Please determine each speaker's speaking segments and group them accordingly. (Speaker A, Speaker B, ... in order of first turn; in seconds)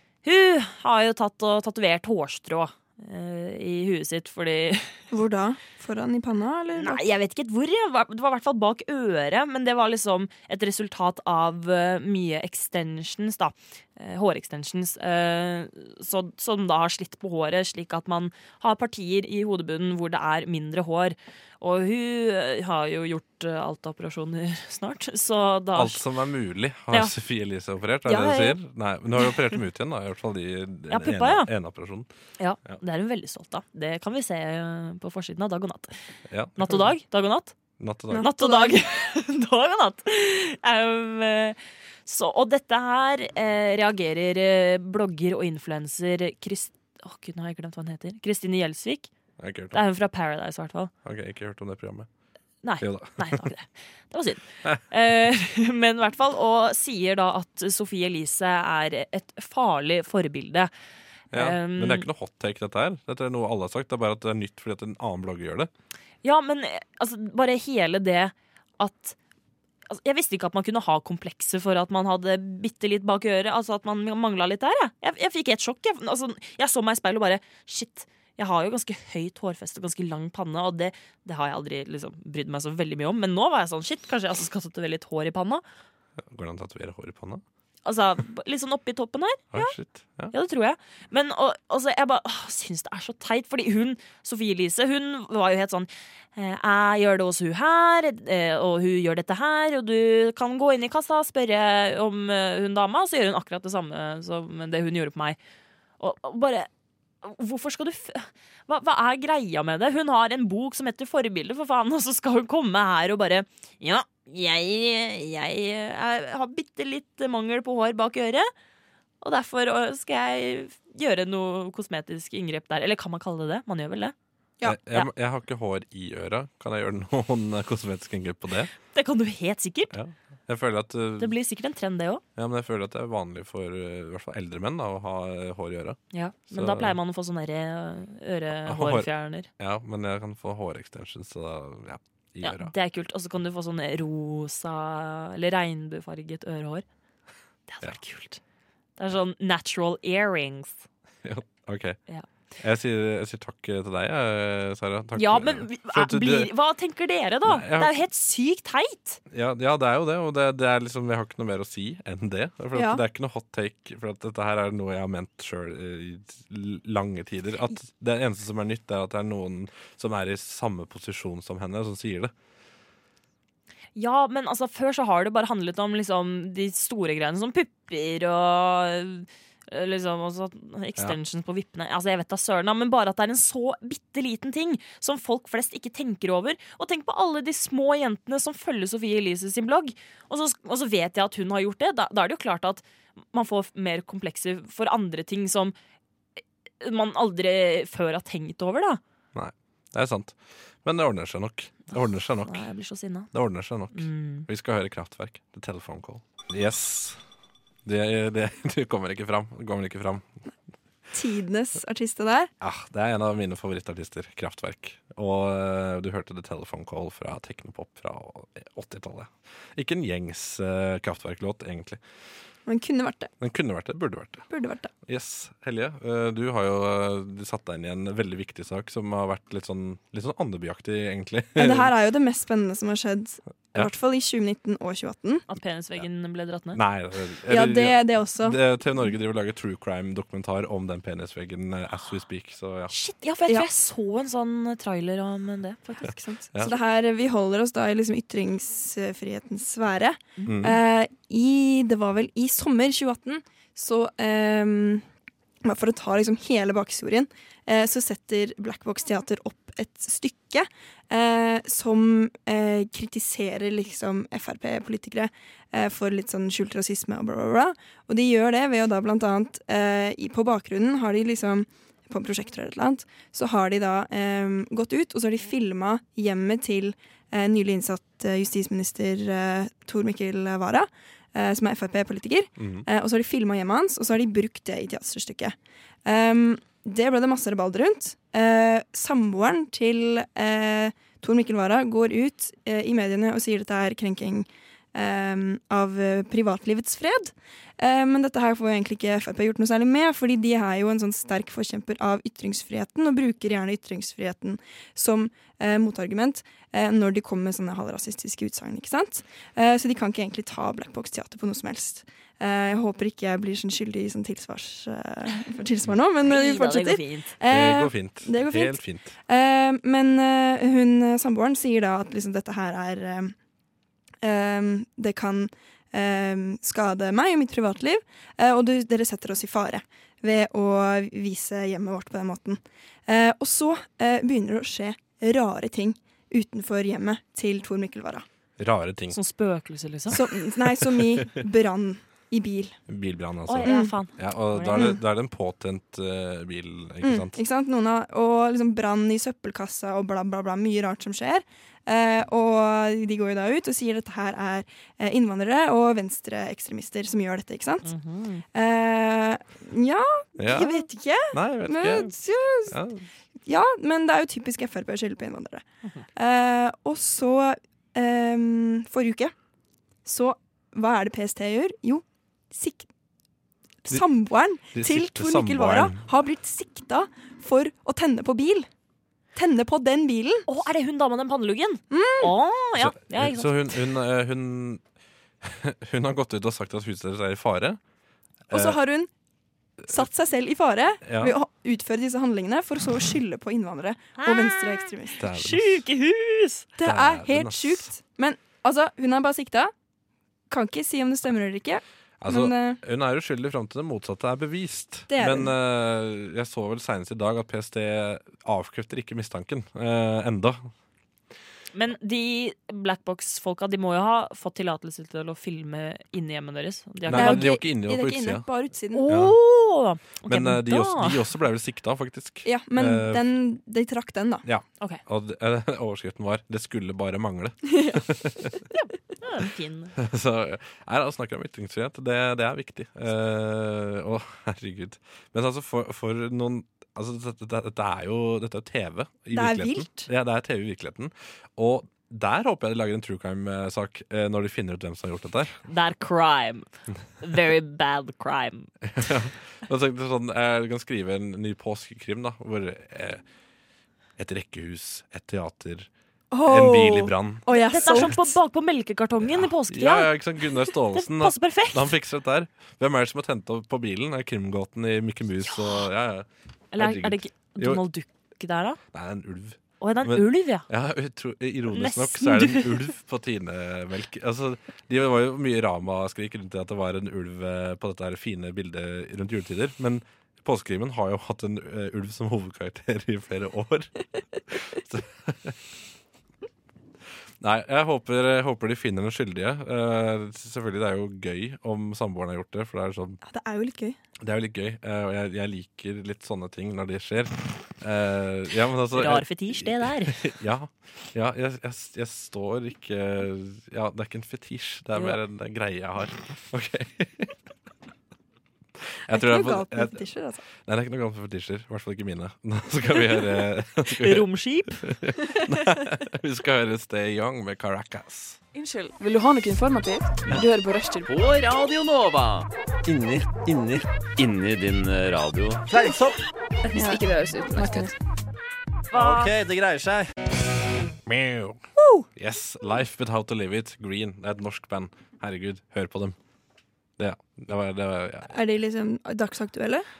Speaker A: 0.2-4.9, 6.8-26.0, 28.1-28.6, 30.9-31.5, 32.4-35.9, 36.6-37.5, 38.2-49.1, 49.7-50.9, 52.6-60.7, 61.3-62.1, 66.2-69.2, 69.9-85.6, 87.8-89.8, 90.3-105.4, 106.0-106.7, 107.2-118.5, 119.2-124.2, 128.9-130.0, 131.2-132.2, 136.1-139.5, 142.4-146.8, 147.7-148.4, 149.0-150.8, 155.2-159.2, 173.9-195.8, 196.8-199.0, 202.4-203.3, 203.9-204.5, 235.5-236.8, 242.9-246.1, 316.2-317.3, 339.1-340.2, 343.5-344.9, 357.9-358.4, 380.5-383.7, 394.2-396.7, 411.8-417.5, 418.9-421.2, 428.7-429.9, 445.7-446.7, 447.2-448.7, 457.5-460.1, 460.9-461.9, 465.4-465.9, 466.7-468.8, 469.8-470.7, 471.7-472.9, 498.9-500.2, 504.9-505.2, 513.9-514.9, 528.9-529.3
Speaker B: 5.1-7.0, 38.1-38.8, 162.7-163.0, 211.1-212.5, 222.7-223.3, 224.5-224.9, 231.6-235.4, 237.5-238.6, 246.0-255.1, 255.6-323.3, 324.2-338.2, 340.1-342.8, 343.6-343.9, 347.0-357.9, 358.5-362.8, 363.5-365.6, 366.1-369.3, 370.1-372.9, 373.9-378.7, 379.4-380.5, 381.9-382.4, 388.5-389.1, 389.9-395.2, 396.8-399.7, 400.5-402.8, 405.1-405.5, 417.1-419.1, 422.4-424.4, 427.7-428.0, 439.3-440.1, 456.3-458.3, 493.2-494.0, 509.1-510.4, 526.7-527.9, 538.3-539.9
Speaker C: 25.8-32.1, 36.3-36.8, 37.8-38.3, 49.4-49.8, 51.0-52.1, 52.8-53.5, 61.3-65.7, 86.2-87.4, 89.5-90.3, 124.6-128.7, 129.9-131.3, 132.4-136.0, 136.5-137.0, 138.7-142.7, 151.2-152.0, 152.6-156.5, 157.4-158.0, 159.3-172.3, 199.3-202.6, 203.3-207.2, 207.8-210.3, 212.6-222.0, 223.4-224.5, 225.1-231.9, 236.7-242.9, 250.4-250.8, 282.6-282.9, 317.5-319.1, 338.6-339.2, 340.8-341.3, 342.9-347.4, 360.4-362.1, 362.7-363.1, 374.7-376.0, 382.8-384.8, 385.4-387.8, 388.5-388.8, 391.0-391.4, 395.2-395.8, 396.8-397.9, 402.2-410.7, 417.0-418.4, 419.1-419.4, 420.3-423.2, 424.4-428.6, 430.0-445.6, 448.8-453.2, 454.2-455.9, 456.4-458.1, 459.2-467.8, 468.9-485.6, 487.4-493.2, 494.2-507.3, 509.1-510.0, 510.6-518.4, 531.1-531.6, 532.2-536.2, 537.0-538.3
Speaker D: 518.5-521.1, 526.7-527.9
Speaker E: 521.1-526.2, 528.9-530.1